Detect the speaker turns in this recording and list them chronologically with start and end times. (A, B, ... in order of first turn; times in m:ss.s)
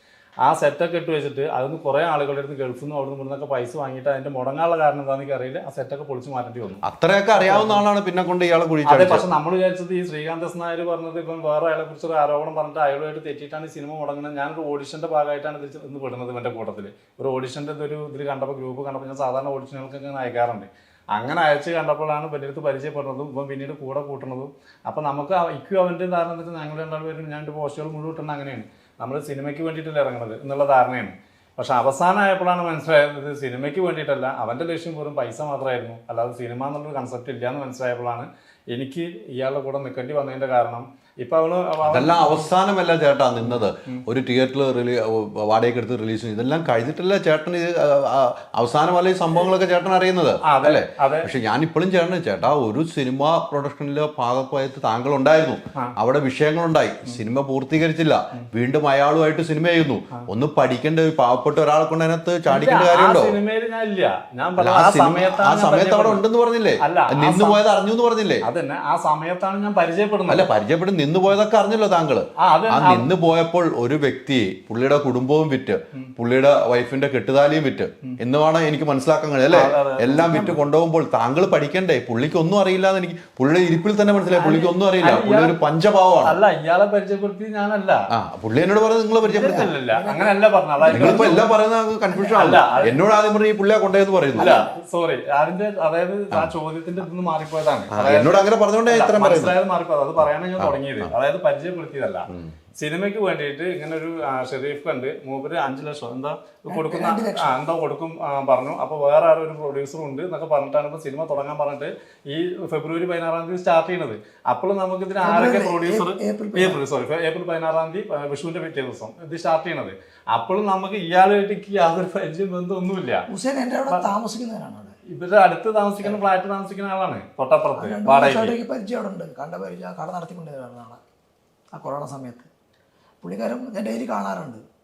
0:00.4-0:06.8 A
0:06.8-0:09.3 B
0:07.3-0:07.8 A
0:08.8-0:42.5 A
0:41.8-1:03.4 B
0:43.4-0:44.0 A
0:50.4-0:51.3 A
1:02.5-1:06.2 A
1:04.6-1:08.4 B
1:06.8-1:07.6 A
1:08.4-1:10.5 A
1:10.3-1:26.4 B
1:12.4-1:13.1 A
1:19.5-1:20.5 A
1:24.3-1:24.7 C
1:25.0-1:25.6 A
1:26.2-1:28.1 A
1:28.1-1:29.7 B
1:29.3-1:31.5 A
1:29.3-1:31.6 C
1:30.9-1:34.5 B
1:32.1-1:32.4 C
1:32.3-1:33.0 A
1:34.4-1:34.7 C
1:34.4-2:03.3 A
1:37.9-1:39.5 B
1:40.6-1:41.1 B
1:42.3-1:42.5 B
1:46.7-1:47.6 C
1:55.2-1:56.8 C
2:03.3-2:04.9 C
2:05.0-2:08.6 A
2:07.8-2:11.0 C
2:11.7-2:12.5 C
2:13.2-2:14.6 C